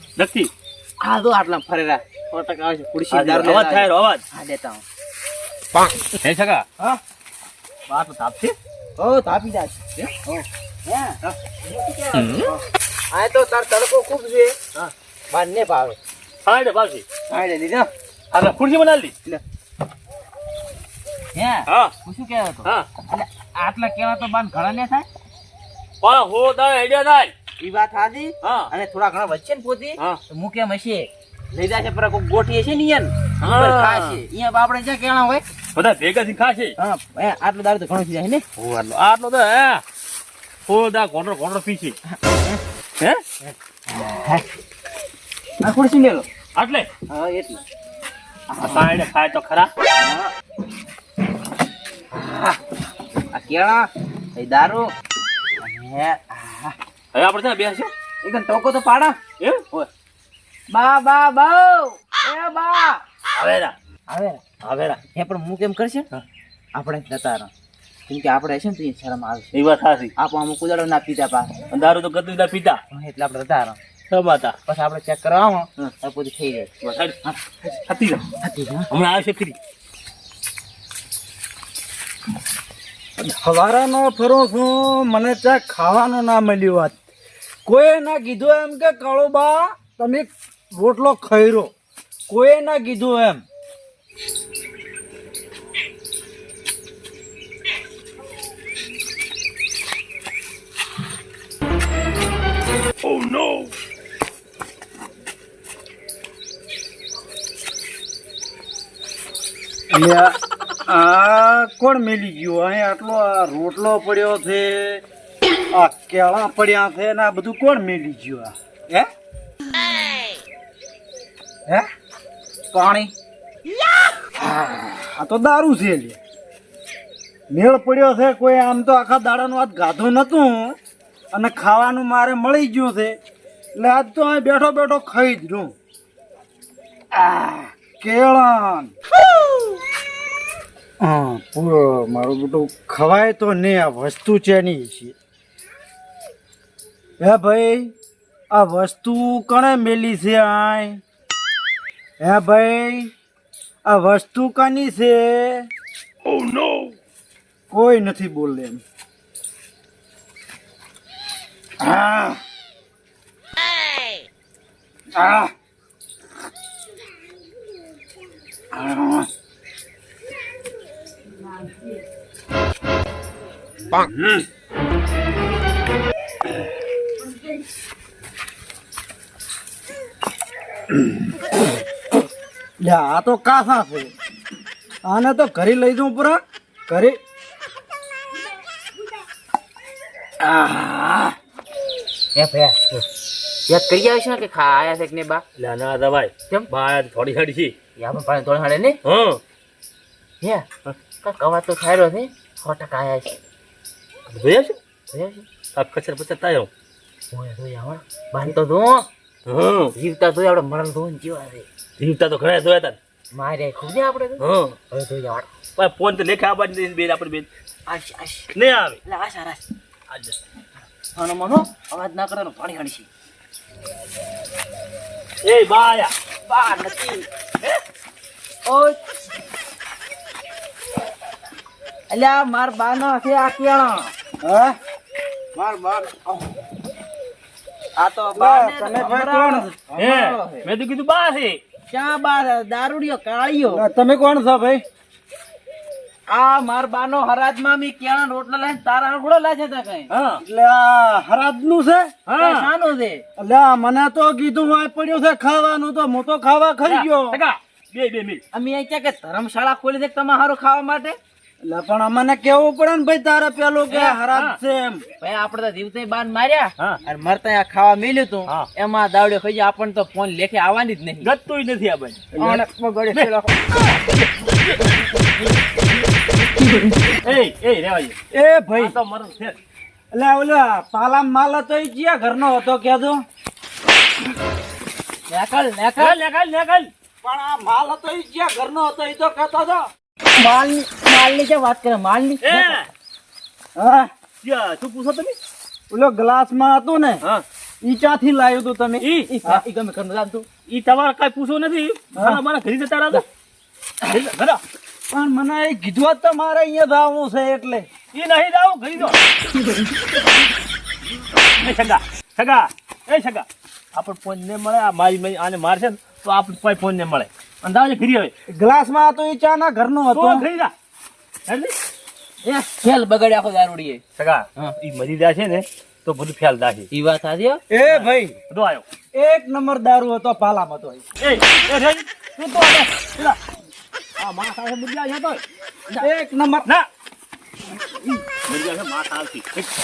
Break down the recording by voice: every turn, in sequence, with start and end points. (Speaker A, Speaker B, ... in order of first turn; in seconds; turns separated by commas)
Speaker A: 0.2-0.5, Speaker B: 1.0-4.8, Speaker A: 3.1-4.2, Speaker A: 6.2-6.7, Speaker A: 7.9-8.5, Speaker B: 9.0-14.6, Speaker B: 15.3-16.0, Speaker A: 16.4-17.0, Speaker B: 17.3-17.9, Speaker A: 18.3-19.1, Speaker B: 21.3-25.1, Speaker A: 21.7-21.9, Speaker A: 26.0-27.3, Speaker B: 27.6-35.4, Speaker A: 28.4-28.7, Speaker A: 33.4-34.2, Speaker A: 35.7-36.7, Speaker B: 36.8-38.4, Speaker A: 38.6-39.8, Speaker A: 40.7-42.0, Speaker B: 42.1-42.6, Speaker A: 43.0-43.2, Speaker B: 43.9-44.4, Speaker B: 45.6-46.3, Speaker A: 46.5-46.9, Speaker B: 47.1-47.6, Speaker B: 48.5-48.8, Speaker A: 48.6-49.7, Speaker B: 50.0-50.3, Speaker B: 52.1-52.6, Speaker B: 53.3-54.9, Speaker B: 55.6-56.8, Speaker A: 57.1-57.9, Speaker B: 58.2-59.2, Speaker B: 60.7-63.0, Speaker A: 63.3-63.7, Speaker B: 64.1-64.4, Speaker A: 64.6-65.0, Speaker B: 65.1-66.1, Speaker B: 66.7-67.5, Speaker B: 68.1-69.5, Speaker A: 69.5-70.1, Speaker B: 70.2-71.6, Speaker A: 71.7-72.8, Speaker B: 72.9-73.8, Speaker A: 74.1-74.5, Speaker B: 74.7-76.7, Speaker A: 76.8-78.3, Speaker B: 78.4-78.9, Speaker A: 78.9-79.6, Speaker C: 83.2-87.0, Speaker C: 87.7-91.7, Speaker C: 92.3-93.4, Speaker C: 109.9-110.3, Speaker C: 110.9-115.0, Speaker C: 115.7-119.1, Speaker C: 122.7-123.1, Speaker C: 124.4-126.2, Speaker C: 127.5-130.8, Speaker C: 131.3-133.2, Speaker C: 133.8-135.7, Speaker C: 137.1-138.9, Speaker C: 141.0-145.1, Speaker C: 147.2-147.9, Speaker C: 148.5-151.0, Speaker C: 152.2-153.1, Speaker C: 153.8-155.7, Speaker C: 157.7-158.8, Speaker C: 161.8-162.4, Speaker C: 165.1-165.5, Speaker C: 168.7-169.3, Speaker C: 173.9-174.4, Speaker C: 182.8-184.1, Speaker C: 185.0-187.2, Speaker C: 190.4-191.3, Speaker B: 192.3-192.8, Speaker B: 193.7-195.4, Speaker A: 195.6-197.7, Speaker B: 198.0-199.0, Speaker A: 199.0-199.4, Speaker B: 200.4-200.7, Speaker B: 201.2-203.3, Speaker A: 204.3-204.8, Speaker B: 205.1-205.4, Speaker A: 205.7-206.7, Speaker B: 207.3-209.1, Speaker A: 209.4-209.9, Speaker B: 209.9-211.7, Speaker A: 212.0-213.0, Speaker B: 213.3-215.5, Speaker A: 214.4-214.8, Speaker A: 215.8-217.5, Speaker B: 217.9-218.5, Speaker A: 218.5-219.0, Speaker B: 219.0-219.6, Speaker A: 220.1-220.4, Speaker B: 221.1-223.1, Speaker A: 225.4-226.1, Speaker B: 226.5-227.2, Speaker B: 228.7-229.0, Speaker B: 232.1-234.1, Speaker C: 234.4-234.8, Speaker B: 235.5-236.5, Speaker B: 237.9-240.7, Speaker C: 238.3-239.7, Speaker A: 240.0-241.6, Speaker B: 241.9-243.8, Speaker C: 243.7-244.8, Speaker B: 246.3-250.1, Speaker A: 250.1-250.4, Speaker C: 250.4-252.1, Speaker A: 252.3-252.7, Speaker B: 252.4-253.2, Speaker C: 253.4-257.4, Speaker A: 256.9-258.4, Speaker B: 258.5-261.2, Speaker C: 261.6-265.0, Speaker B: 263.9-264.1, Speaker A: 264.3-264.6, Speaker B: 265.2-271.3, Speaker A: 271.2-272.6, Speaker B: 272.4-273.8, Speaker B: 276.8-277.0, Speaker A: 277.2-278.1, Speaker C: 278.3-279.0, Speaker A: 278.7-279.6, Speaker C: 280.1-283.2, Speaker B: 285.3-286.2, Speaker A: 286.0-286.9, Speaker C: 287.2-289.9, Speaker B: 290.3-292.8, Speaker A: 292.4-292.9, Speaker C: 293.8-294.1, Speaker A: 294.4-295.4, Speaker C: 295.9-297.2, Speaker C: 297.8-299.6, Speaker A: 299.0-299.3, Speaker B: 299.3-300.4, Speaker A: 300.7-303.2, Speaker C: 302.1-302.4, Speaker A: 304.0-304.6, Speaker C: 305.1-307.9, Speaker A: 308.1-309.2, Speaker A: 311.6-318.3, Speaker C: 318.5-320.5, Speaker A: 320.1-320.7, Speaker A: 321.5-321.7, Speaker B: 322.4-324.0, Speaker A: 324.2-326.9, Speaker B: 326.9-327.6, Speaker C: 327.7-328.4, Speaker A: 327.8-328.8, Speaker C: 329.1-331.0, Speaker A: 331.2-333.4, Speaker A: 334.2-335.4, Speaker C: 336.0-336.7, Speaker A: 338.4-339.7